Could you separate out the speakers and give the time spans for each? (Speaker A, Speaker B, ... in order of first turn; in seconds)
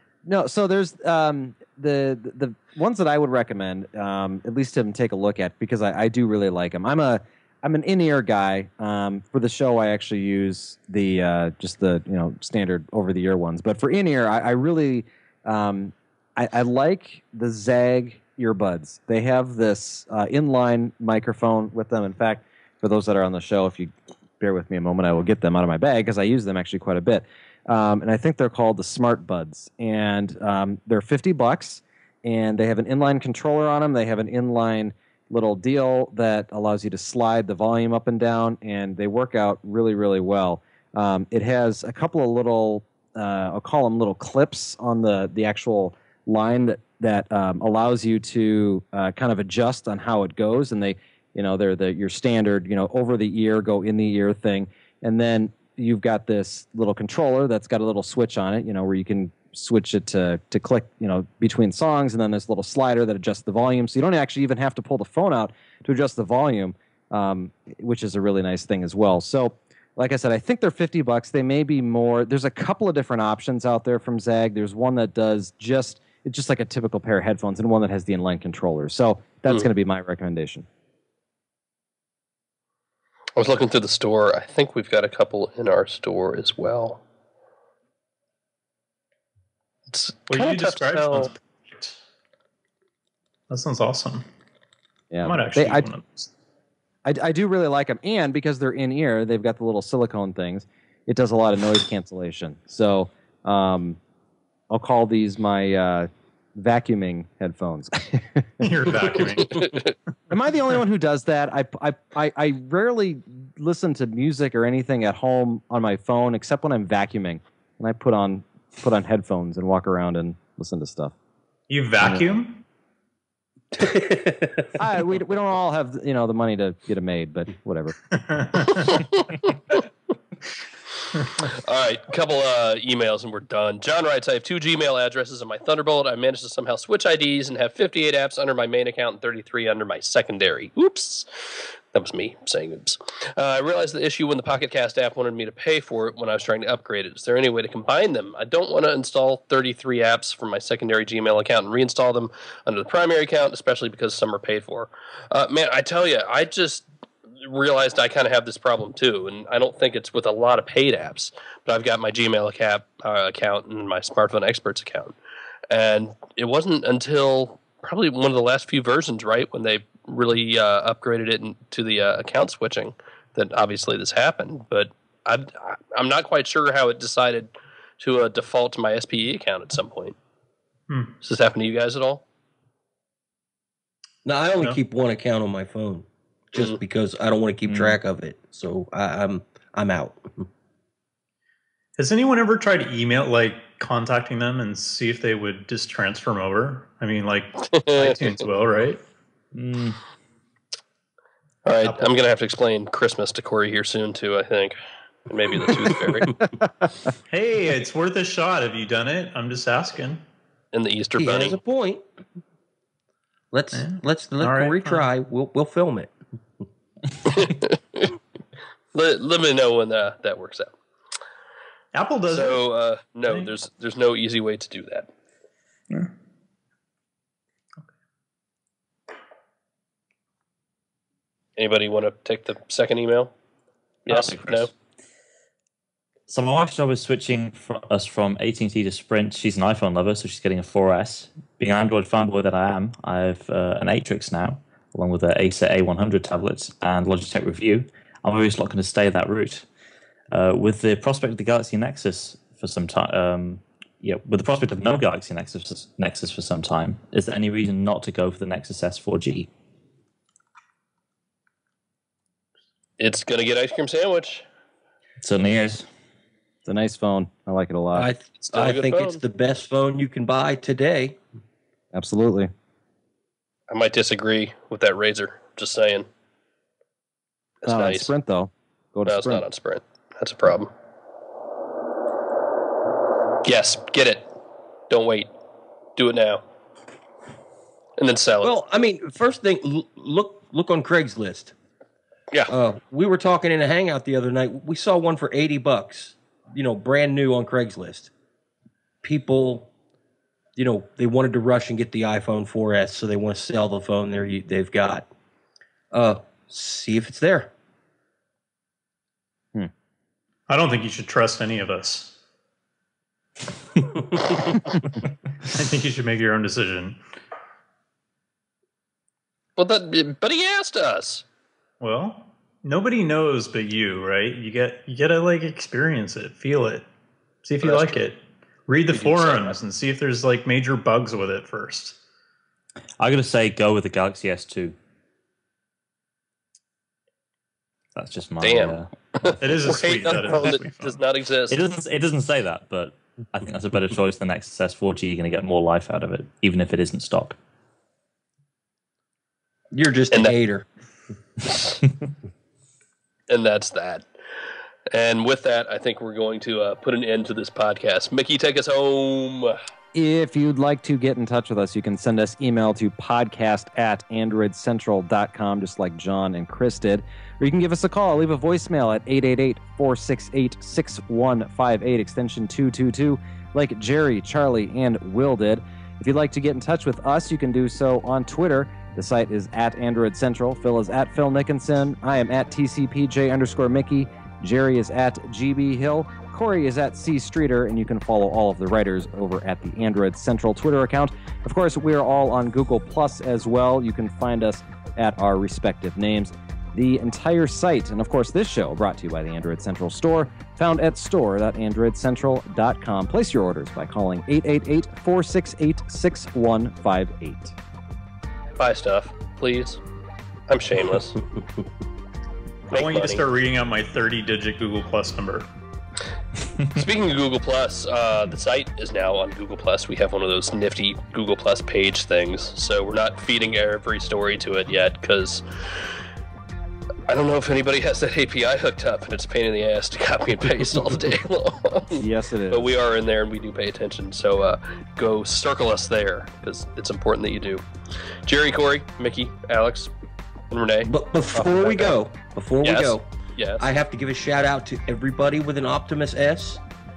Speaker A: 0.2-80.7, 95.1-95.8, 97.0-104.0, 104.7-108.7, 110.3-121.1, 124.8-128.0, 266.6-268.1, 271.9-272.5, 277.6-279.4, 359.9-407.5, 432.0-432.7
Speaker B: 83.3-87.0, 89.9-91.3, 109.5-109.9, 128.7-129.7, 131.4-156.9, 157.4-165.1, 165.7-180.2, 181.2-182.2, 197.7-198.3, 201.7-204.8, 205.3-206.3, 210.7-211.6, 217.3-218.1, 218.9-220.7, 222.3-225.1, 231.6-233.3, 234.1-234.7, 263.0-264.4, 268.4-269.2, 273.7-276.1, 277.6-278.1, 279.1-280.7, 283.4-284.3, 284.9-285.3, 285.9-286.4, 288.0-288.5, 319.6-321.2, 327.6-328.0, 328.9-329.6, 338.4-341.6, 351.4-351.8, 353.3-354.1, 354.9-359.6, 408.6-409.8, 410.5-411.2, 412.7-413.2, 416.7-425.4, 427.1-437.6, 438.2-439.9, 440.5-442.0, 442.6-443.7
Speaker C: 90.3-92.0, 93.5-94.2, 95.2-96.3, 108.6-109.9, 121.7-122.6, 128.1-129.0, 180.9-181.1, 192.0-199.0, 201.8-202.2, 207.3-210.2, 213.7-215.1, 221.9-222.7, 223.2-223.5, 310.5-312.1, 315.5-317.0, 321.8-326.9, 327.4-332.0, 339.4-341.0, 412.7-415.5
Speaker D: 123.7-124.7, 184.2-190.5, 211.2-212.0, 213.5-216.1, 267.9-271.2, 288.4-291.5, 292.5-298.1, 299.0-299.7, 300.6-305.1, 305.9-307.5, 349.7-350.6, 440.8-443.1, 443.6-446.6
Speaker E: 187.6-188.0, 199.5-200.0, 234.1-234.7, 236.3-249.7, 250.3-259.5, 265.2-265.9, 333.0-334.7, 337.9-338.9, 341.5-347.4